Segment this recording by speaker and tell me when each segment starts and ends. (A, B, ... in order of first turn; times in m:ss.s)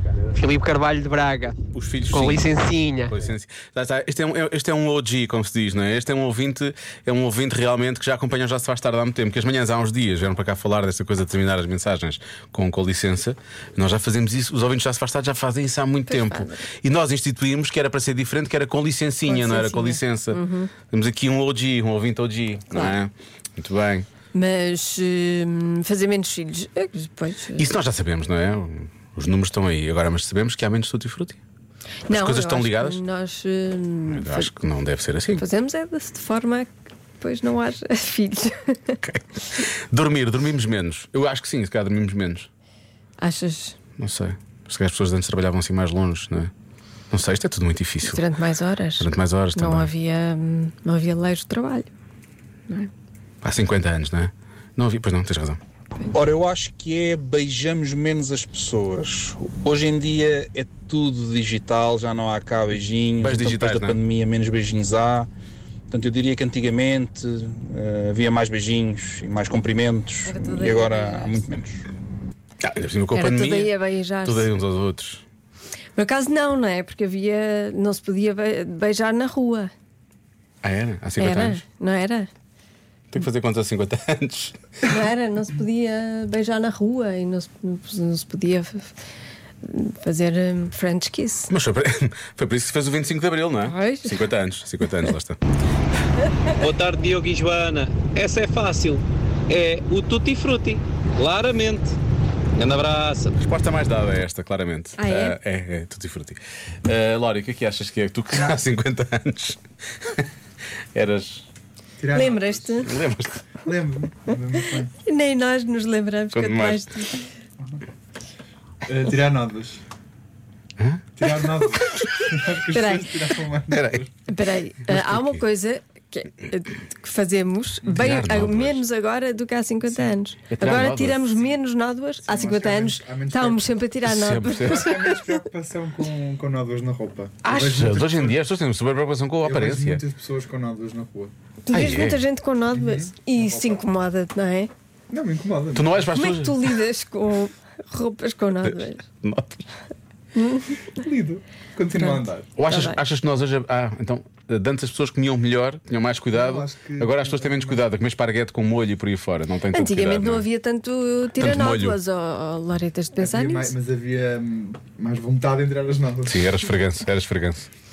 0:00.3-0:01.6 A
0:01.7-0:02.5 B
0:02.1-0:03.1 A
0:03.1-0:24.1 B
0:16.1-0:16.6 C
0:19.2-0:20.7 C
0:24.3-0:27.7 C
0:27.5-0:31.4 B
0:32.1-0:34.5 C
0:32.1-0:33.0 B
0:34.1-0:35.4 B
0:35.3-0:39.0 C
0:39.0-0:42.5 B
0:43.2-0:43.8 C
0:44.0-0:46.5 B
0:47.1-0:48.2 B
0:48.0-0:51.9 C
0:49.0-0:49.9 B
0:53.4-0:55.6 B
0:56.1-1:05.3 D
1:03.2-1:04.0 B
1:05.9-1:11.8 D
1:10.2-1:11.5 C
1:12.6-1:15.2 B
1:13.1-1:14.5 C
1:16.0-1:19.7 C
1:20.6-1:21.6 B
1:21.2-1:22.3 C
1:23.1-1:24.9 B
1:24.8-1:28.9 C
1:29.6-1:31.5 C
1:31.5-1:35.4 B
1:33.6-1:34.2 C
1:36.6-1:42.0 E
1:42.6-1:43.3 E
1:43.4-1:49.6 B
1:45.0-1:45.4 C
1:50.9-1:51.4 B
1:52.0-1:52.8 F
1:52.1-1:52.9 C
1:52.8-1:53.4 B
1:53.6-1:54.9 F
1:54.3-1:57.2 C
1:56.3-1:56.8 B
1:58.8-1:59.8 F
2:00.8-2:01.0 B
2:01.2-2:04.2 F
2:02.7-2:03.3 C
2:03.7-2:04.0 B
2:04.3-2:15.4 C
2:04.9-2:05.4 B
2:08.0-2:08.8 B
2:10.5-2:11.2 B
2:12.2-2:13.8 F
2:14.0-2:14.9 B
2:14.6-2:18.4 F
2:17.4-2:20.0 B
2:19.4-2:21.3 F
2:21.6-2:24.7 C
2:21.7-2:22.2 B
2:22.7-2:23.8 F
2:25.1-2:26.1 F
2:25.7-2:26.7 B
2:26.1-2:29.0 C
2:28.6-2:29.6 B
2:30.4-2:30.8 C
2:31.0-2:32.5 F
2:31.9-2:33.0 C
2:32.6-2:40.4 B
2:36.3-2:37.8 F
2:39.7-2:43.7 C
2:41.4-2:42.0 B
2:43.2-2:46.6 F
2:46.3-2:47.7 B